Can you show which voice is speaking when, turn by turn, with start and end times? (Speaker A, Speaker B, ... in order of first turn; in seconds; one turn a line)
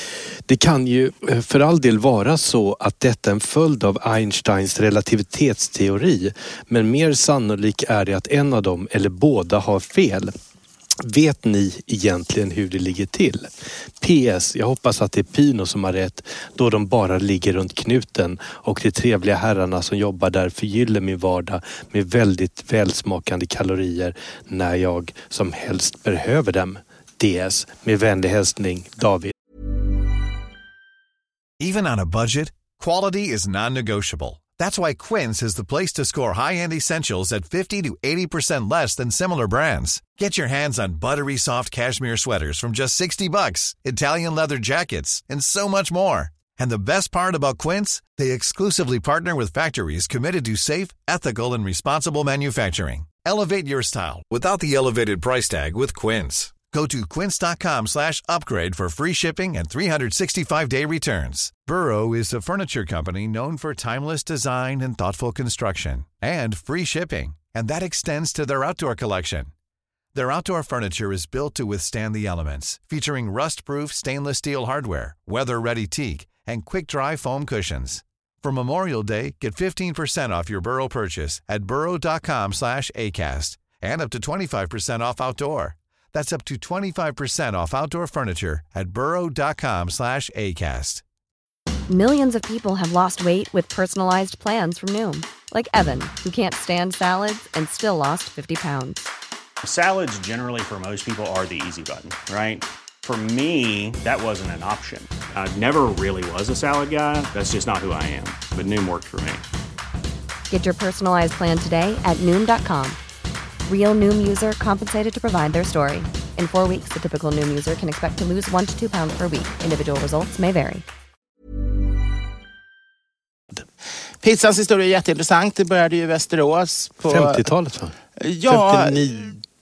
Speaker A: 0.5-10.3
Speaker A: 11.0-13.5
Speaker A: 14.0-29.3
Speaker B: 31.6-69.5
Speaker B: 70.1-91.0
Speaker C: 91.9-99.0
Speaker D: 99.6-109.4
Speaker C: 110.5-113.0
Speaker C: 113.7-120.8
Speaker E: 124.2-127.4
Speaker A: 127.1-127.9
Speaker E: 128.2-129.0
Speaker A: 128.5-129.4